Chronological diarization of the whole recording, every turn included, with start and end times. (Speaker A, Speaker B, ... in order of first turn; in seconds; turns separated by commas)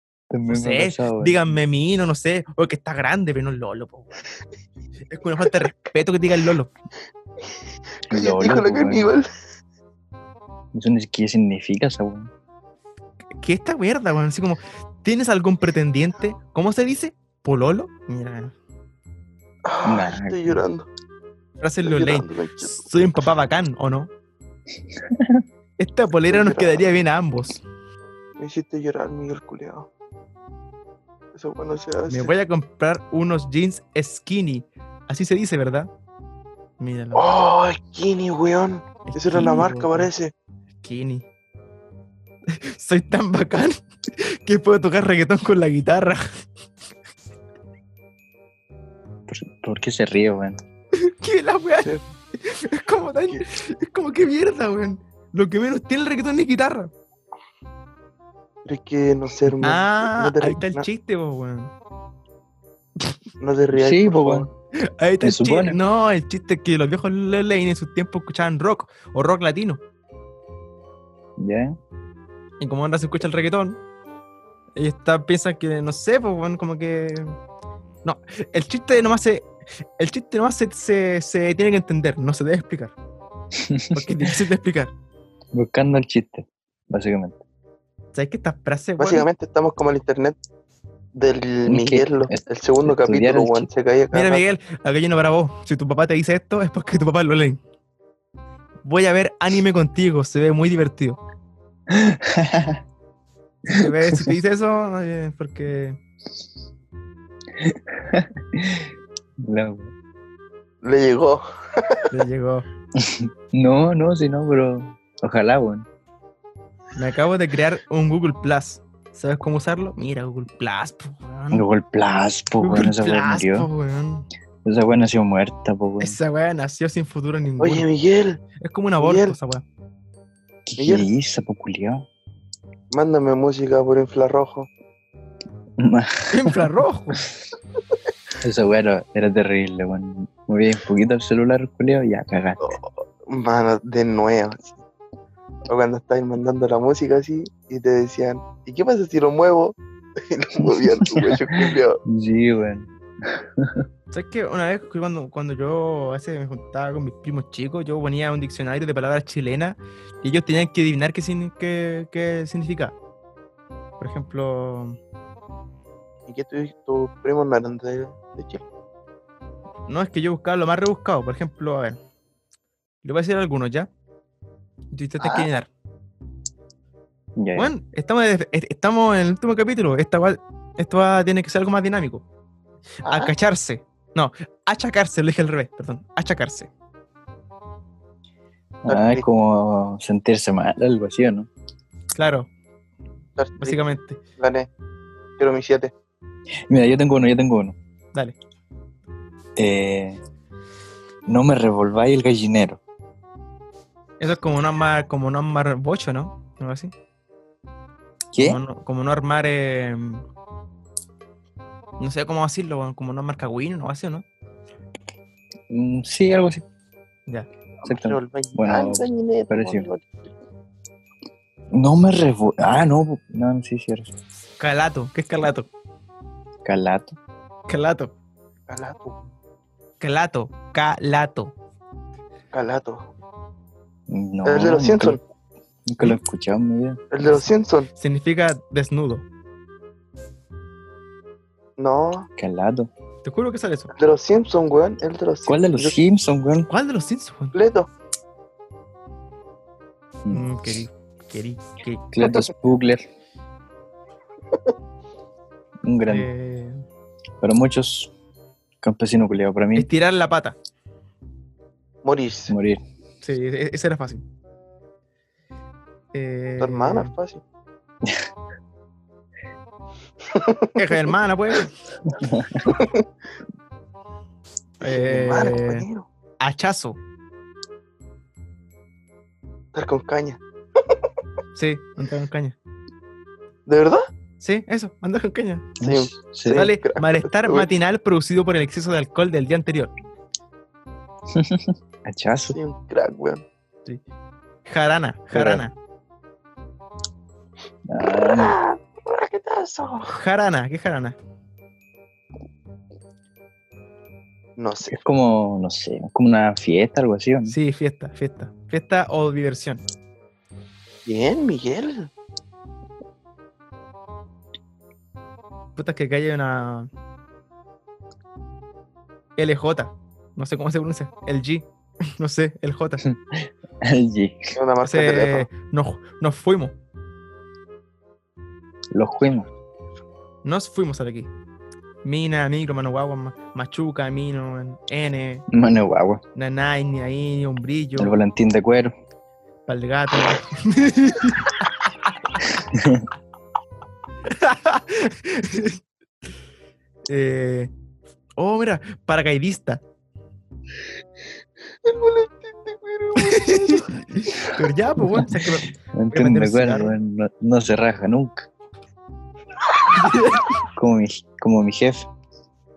Speaker A: 0.3-1.6, Speaker B: 0.5-4.1, Speaker B: 5.1-6.7, Speaker A: 8.1-9.1, Speaker C: 8.1-9.3, Speaker A: 10.7-12.3, Speaker B: 13.4-18.5, Speaker C: 19.6-20.9, Speaker A: 19.8-20.6, Speaker B: 21.6-24.1, Speaker C: 21.8-22.8, Speaker A: 25.0-25.4, Speaker B: 25.8-27.6, Speaker C: 26.3-26.9, Speaker C: 28.4-29.9, Speaker C: 31.3-32.3, Speaker B: 32.1-35.9, Speaker B: 36.8-37.3, Speaker C: 37.1-40.3, Speaker B: 39.0-40.1, Speaker B: 40.8-41.2, Speaker B: 42.5-46.4, Speaker A: 49.3-50.6, Speaker B: 50.9-56.9, Speaker C: 58.6-60.9, Speaker B: 59.5-61.7, Speaker C: 63.4-64.5, Speaker A: 63.7-64.5, Speaker B: 64.8-69.8, Speaker A: 65.2-65.8, Speaker A: 71.4-71.8, Speaker B: 72.6-73.8, Speaker B: 74.8-77.3, Speaker B: 78.0-79.5, Speaker B: 80.0-82.9, Speaker A: 83.5-84.3, Speaker B: 83.9-84.9, Speaker A: 85.5-87.4, Speaker B: 88.1-89.3, Speaker C: 89.0-90.4, Speaker C: 91.1-94.4, Speaker A: 91.7-93.7, Speaker B: 94.1-97.6, Speaker B: 98.8-101.2, Speaker A: 101.9-102.8, Speaker B: 103.7-106.0, Speaker A: 103.7-104.3, Speaker A: 107.6-108.9, Speaker A: 109.4-109.9, Speaker C: 110.8-112.0, Speaker B: 112.1-112.7, Speaker A: 113.0-115.9, Speaker B: 116.9-121.6, Speaker A: 121.5-123.7, Speaker B: 122.6-124.3, Speaker A: 124.6-126.2, Speaker B: 126.0-127.8, Speaker C: 127.6-128.4, Speaker B: 128.6-129.6, Speaker C: 129.0-129.3, Speaker A: 130.7-132.1, Speaker C: 130.8-131.1, Speaker C: 132.9-134.7, Speaker A: 135.8-137.2, Speaker B: 136.3-137.2, Speaker A: 138.4-142.6, Speaker C: 142.6-144.8, Speaker C: 145.7-152.0, Speaker A: 151.0-153.8, Speaker B: 154.1-162.9, Speaker B: 164.0-165.0, Speaker C: 166.3-168.6, Speaker B: 169.9-172.0, Speaker B: 173.0-173.9, Speaker B: 174.9-175.7, Speaker C: 175.2-175.5, Speaker A: 177.4-177.7, Speaker B: 177.6-182.2, Speaker B: 183.0-186.7, Speaker C: 183.1-183.3, Speaker A: 188.8-191.5, Speaker C: 188.9-189.2, Speaker B: 192.1-192.5, Speaker C: 193.4-193.8, Speaker B: 193.6-194.2, Speaker C: 194.4-194.7, Speaker C: 195.4-195.9, Speaker A: 196.7-197.8, Speaker A: 199.6-200.2, Speaker A: 201.3-202.8, Speaker B: 204.2-206.9, Speaker A: 208.3-208.6, Speaker B: 208.4-210.2, Speaker B: 212.0-214.2, Speaker A: 215.7-216.6, Speaker C: 217.8-220.3, Speaker A: 217.8-219.9, Speaker A: 221.7-224.1, Speaker B: 224.6-225.7, Speaker A: 226.6-227.2, Speaker B: 227.7-228.1, Speaker C: 228.7-229.2, Speaker B: 230.0-231.5, Speaker C: 232.5-233.0, Speaker A: 234.1-235.2, Speaker C: 234.4-235.2, Speaker A: 235.9-237.0, Speaker C: 237.1-237.9, Speaker B: 238.0-239.2, Speaker C: 241.8-242.3, Speaker A: 242.4-242.9, Speaker B: 243.2-243.9, Speaker C: 243.9-246.0, Speaker A: 245.5-246.7, Speaker B: 246.7-247.6, Speaker C: 247.5-247.9, Speaker B: 250.3-252.1, Speaker A: 252.1-253.1, Speaker A: 255.8-256.3, Speaker B: 256.1-256.8, Speaker A: 257.4-258.1, Speaker A: 258.8-259.9, Speaker B: 259.7-260.6, Speaker C: 262.0-262.5, Speaker A: 262.5-262.8, Speaker B: 263.2-264.2, Speaker B: 266.1-267.1, Speaker C: 266.6-267.4, Speaker C: 270.3-270.7, Speaker B: 270.8-271.7, Speaker A: 272.1-272.6, Speaker C: 272.7-272.9, Speaker C: 274.8-276.1, Speaker B: 274.8-275.9, Speaker B: 276.4-277.0, Speaker C: 279.7-280.4, Speaker B: 281.5-282.5, Speaker C: 283.6-284.1, Speaker B: 284.4-285.7, Speaker A: 285.8-286.7, Speaker C: 285.8-287.7, Speaker B: 286.5-289.9, Speaker A: 291.3-292.6, Speaker C: 292.5-293.4, Speaker B: 294.6-295.7, Speaker A: 295.3-295.6, Speaker A: 297.9-298.6, Speaker C: 298.0-300.1, Speaker B: 300.1-301.1, Speaker C: 304.6-305.0, Speaker A: 304.9-307.6, Speaker B: 307.5-309.8, Speaker C: 311.1-312.1, Speaker B: 315.8-316.9, Speaker B: 319.4-321.6, Speaker B: 322.2-323.0, Speaker A: 323.0-324.5, Speaker C: 324.5-325.5, Speaker B: 324.8-326.7, Speaker A: 328.9-329.5, Speaker B: 330.4-331.3, Speaker B: 332.0-335.4, Speaker A: 335.5-336.2, Speaker B: 336.3-338.1, Speaker A: 338.0-338.9, Speaker B: 339.7-341.6, Speaker A: 342.7-343.1, Speaker B: 344.3-345.8, Speaker B: 347.1-347.7, Speaker B: 348.4-349.8, Speaker C: 351.8-353.9, Speaker B: 353.2-357.0, Speaker A: 355.0-355.3, Speaker A: 355.9-358.5, Speaker B: 359.9-360.6, Speaker A: 360.7-362.1